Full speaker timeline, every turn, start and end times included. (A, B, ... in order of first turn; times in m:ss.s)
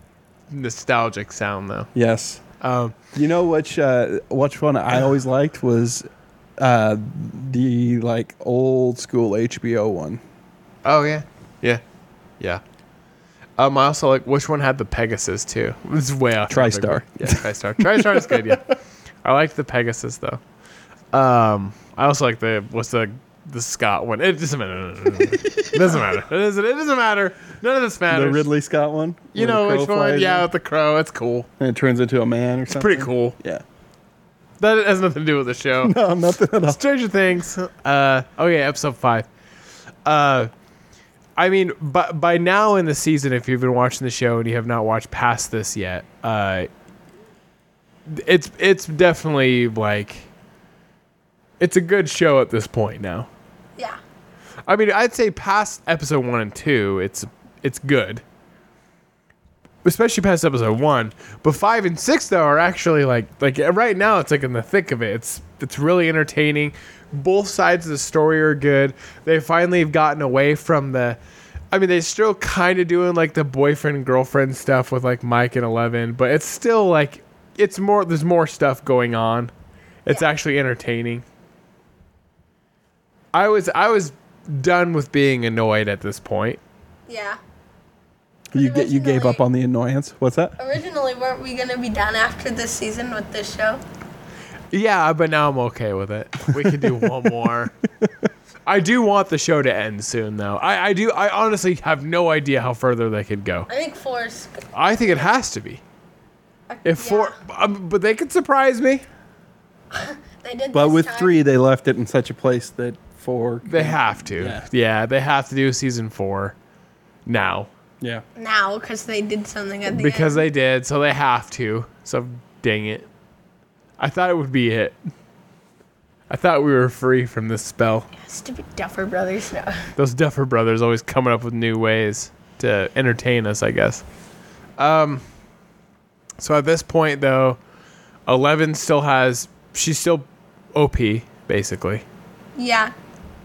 0:00.5-0:01.9 A
0:01.9-0:02.4 B
0:02.6-0:03.0 A
0:03.1-0:06.1 B
0:06.6-0:10.2 B
0:10.8-0:11.8 A
0:13.6-0:20.4 A
0:16.5-0:18.5 B
0:21.1-0:28.5 A
0:28.1-0:30.5 B
0:29.3-0:31.5 A
0:31.6-0:33.6 B
0:32.7-0:33.3 A
0:34.6-0:36.0 A
0:35.8-0:36.8 B
0:36.7-0:39.3 A
0:40.0-0:40.5 A
0:41.4-0:46.7 A
0:48.1-0:50.3 A
0:51.6-0:53.3 A
0:54.7-0:58.2 A
0:59.8-1:11.2 A
1:11.7-1:19.5 A
1:20.0-1:21.2 A
1:23.3-1:26.6 A
1:27.1-1:27.4 C
1:28.5-1:30.6 B
1:28.5-1:29.4 C
1:30.6-1:33.8 C
1:34.7-1:37.7 A
1:36.6-1:37.1 B
1:38.7-1:43.7 A
1:43.7-1:44.6 C
1:44.7-1:45.8 A
1:46.7-1:47.3 C
1:46.8-1:49.0 A
1:49.9-1:51.3 C
1:50.7-1:54.7 B
1:53.6-1:56.5 A
1:57.2-1:57.7 A
1:58.4-2:00.4 C
1:59.9-2:03.1 A
2:04.0-2:05.0 A
2:06.3-2:08.1 A
2:08.2-2:09.9 C
2:10.0-2:14.0 A
2:14.8-2:15.2 A
2:16.4-2:17.6 A
2:18.3-2:22.0 A
2:22.6-2:22.9 C